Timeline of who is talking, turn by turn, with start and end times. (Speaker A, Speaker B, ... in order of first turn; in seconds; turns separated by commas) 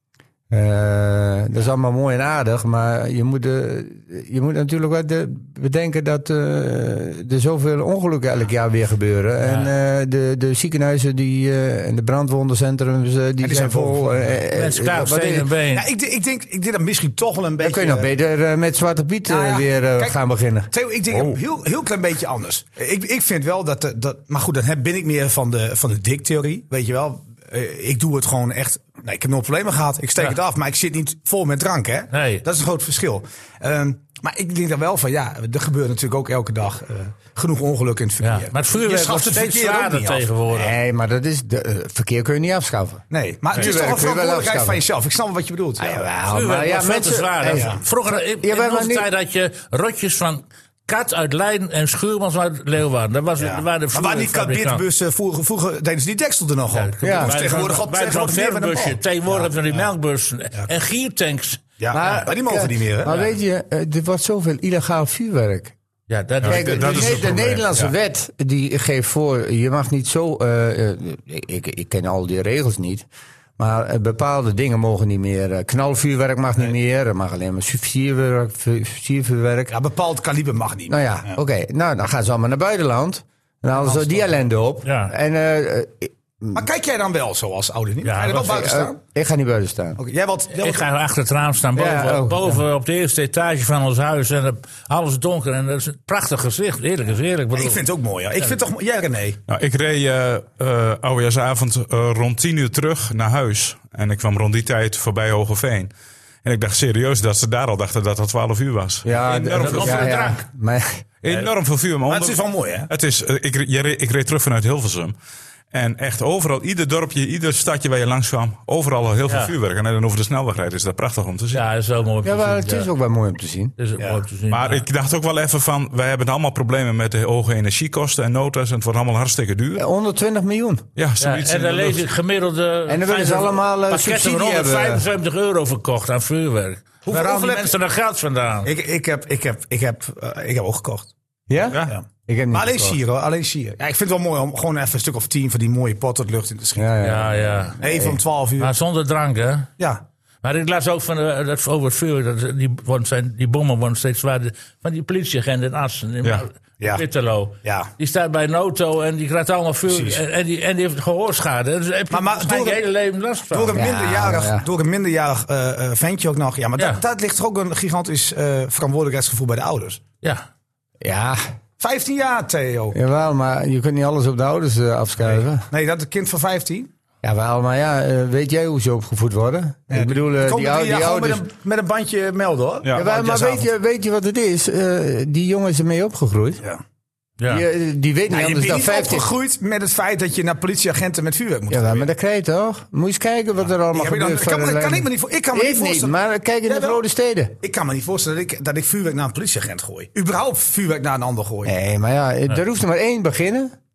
Speaker A: 0.5-15.5, Speaker B: 9.4-9.7, Speaker C: 13.4-14.4, Speaker B: 14.5-15.8, Speaker C: 15.7-18.1, Speaker A: 17.6-21.4, Speaker C: 19.3-20.2, Speaker C: 20.7-40.3, Speaker B: 32.1-32.4, Speaker B: 38.2-40.7, Speaker A: 40.5-44.8, Speaker C: 43.1-46.1, Speaker A: 45.8-47.8, Speaker B: 46.2-54.8, Speaker C: 47.5-47.8, Speaker A: 48.4-49.1, Speaker C: 53.4-59.9, Speaker B: 56.7-62.1, Speaker A: 57.0-57.3, Speaker C: 61.8-63.2, Speaker A: 61.9-65.7, Speaker B: 63.1-63.3, Speaker B: 66.1-67.6, Speaker D: 66.4-67.9, Speaker A: 66.5-73.0, Speaker A: 73.6-79.7, Speaker C: 79.7-81.4, Speaker A: 80.9-86.6, Speaker C: 83.8-84.2, Speaker B: 84.8-85.1, Speaker C: 86.5-89.0, Speaker B: 88.0-88.6, Speaker A: 88.4-90.0, Speaker C: 90.0-90.9, Speaker B: 90.6-97.8, Speaker A: 91.7-92.6, Speaker C: 97.5-99.4, Speaker D: 99.5-105.9, Speaker D: 106.4-110.2, Speaker A: 109.0-111.0, Speaker B: 109.5-110.4, Speaker D: 111.2-115.1, Speaker C: 112.1-112.9, Speaker D: 115.7-121.6, Speaker B: 119.3-119.5, Speaker B: 121.5-122.9, Speaker A: 122.2-123.7, Speaker B: 123.8-124.8, Speaker D: 124.5-129.8, Speaker A: 129.8-130.9, Speaker D: 130.9-132.0, Speaker B: 131.2-138.7, Speaker A: 132.8-135.1, Speaker C: 137.1-137.8, Speaker C: 138.6-141.1, Speaker A: 141.5-143.0, Speaker C: 141.7-146.9, Speaker A: 146.8-148.2, Speaker B: 147.0-147.8, Speaker C: 147.8-148.7, Speaker B: 148.6-149.7, Speaker B: 150.4-163.9, Speaker C: 156.8-157.0, Speaker C: 157.6-157.9, Speaker C: 159.9-160.2, Speaker C: 162.1-162.8, Speaker C: 163.5-170.0, Speaker A: 163.7-164.7, Speaker A: 171.0-171.4, Speaker C: 171.8-173.0, Speaker A: 172.9-175.7, Speaker C: 175.2-176.9, Speaker A: 177.2-181.4, Speaker C: 179.9-183.7, Speaker A: 182.9-186.6, Speaker B: 187.4-187.6, Speaker A: 187.5-189.3, Speaker C: 188.3-192.1, Speaker A: 191.7-197.5, Speaker C: 193.8-197.0, Speaker C: 197.6-201.7, Speaker A: 201.6-203.7